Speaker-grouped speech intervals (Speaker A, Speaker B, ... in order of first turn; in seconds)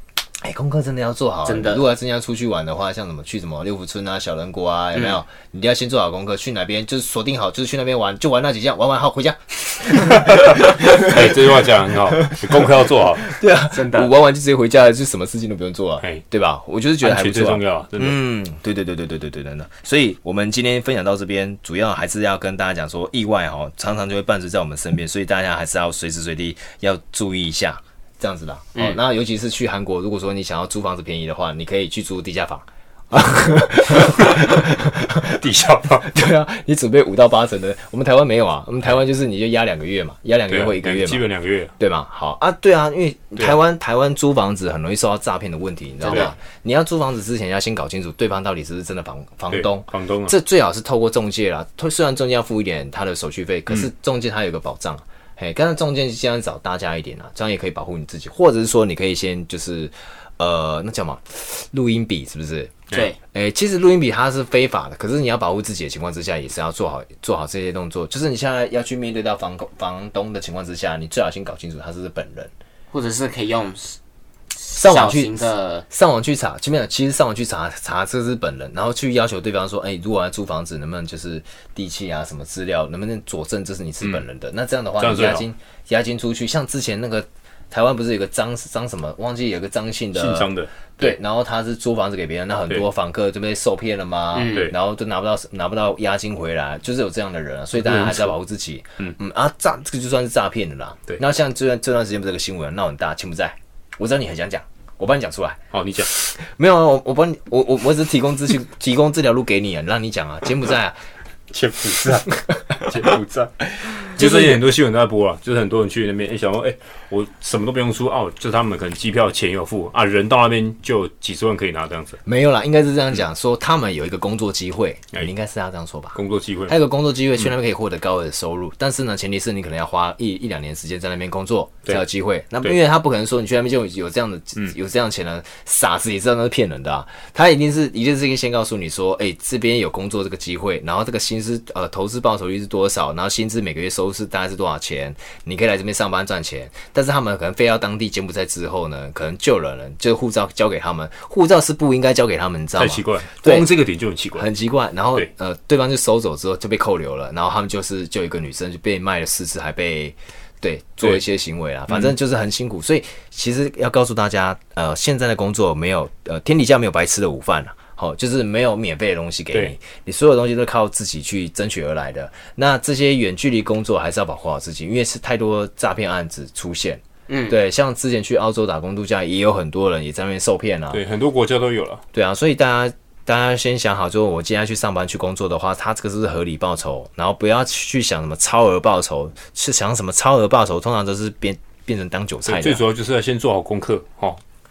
Speaker A: 0.4-12.7, 13.2-35.4, 36.0-72.5, 74.7-111.0, 112.5-113.0, 113.7-114.6, 122.2-153.7, 154.3-181.0, 182.1-192.8
Speaker B: 1.4-1.9, 13.7-14.1, 46.0-46.3, 62.9-63.2, 72.9-74.0, 74.6-75.8, 94.3-94.7, 177.3-177.6
Speaker C: 10.1-13.3, 17.0-18.2, 34.2-34.4, 35.3-36.1, 40.5-41.7, 46.1-46.3, 49.5-50.3, 85.0-85.5, 90.1-90.7, 94.4-94.7, 97.8-98.3, 105.7-106.1, 111.5-113.5, 114.1-122.2, 126.2-126.7, 152.8-154.5, 161.9-162.1, 180.9-182.0, 192.4-194.4